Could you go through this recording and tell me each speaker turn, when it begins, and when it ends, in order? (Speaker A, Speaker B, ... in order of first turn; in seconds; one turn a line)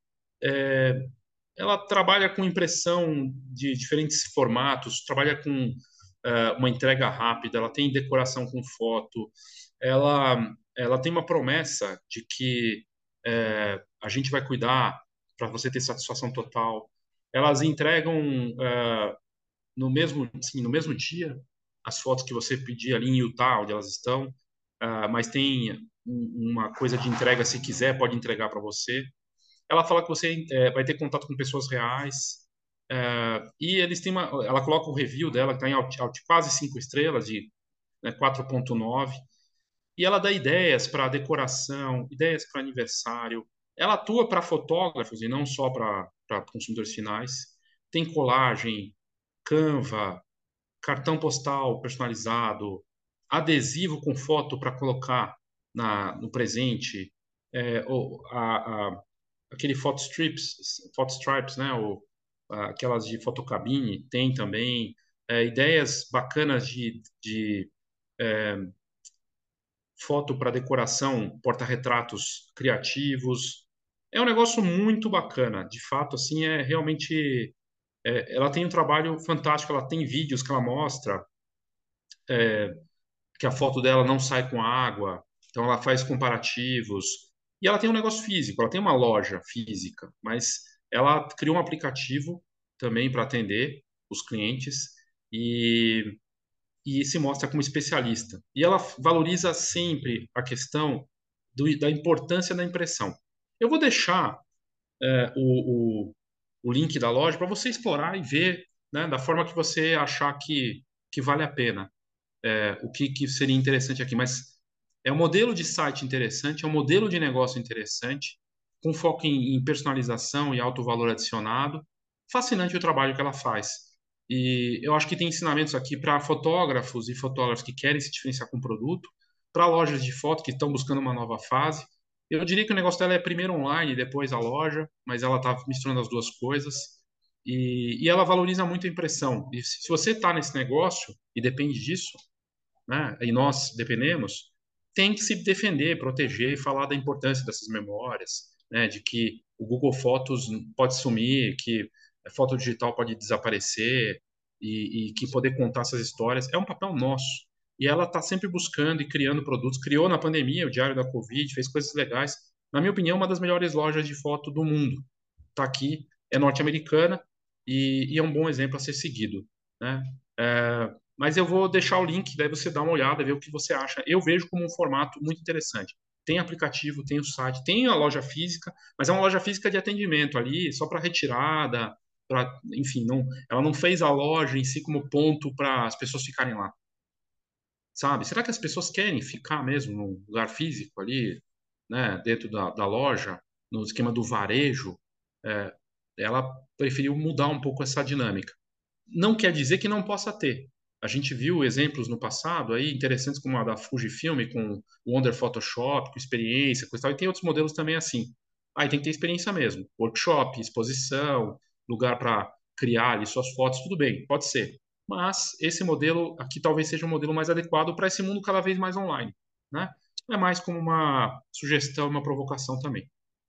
Speaker A: 0.4-19.2
Speaker A: 19.8-29.1
Speaker A: 29.7-39.2
Speaker A: 40.0-50.2
Speaker A: 50.8-68.7
Speaker A: 70.0-81.3
Speaker A: 82.3-82.8
Speaker A: 83.4-96.2
Speaker A: 96.8-104.4
Speaker A: 105.0-111.9
Speaker A: 112.4-142.2
Speaker A: 142.9-186.7
Speaker A: 187.9-198.6
Speaker A: 199.1-223.1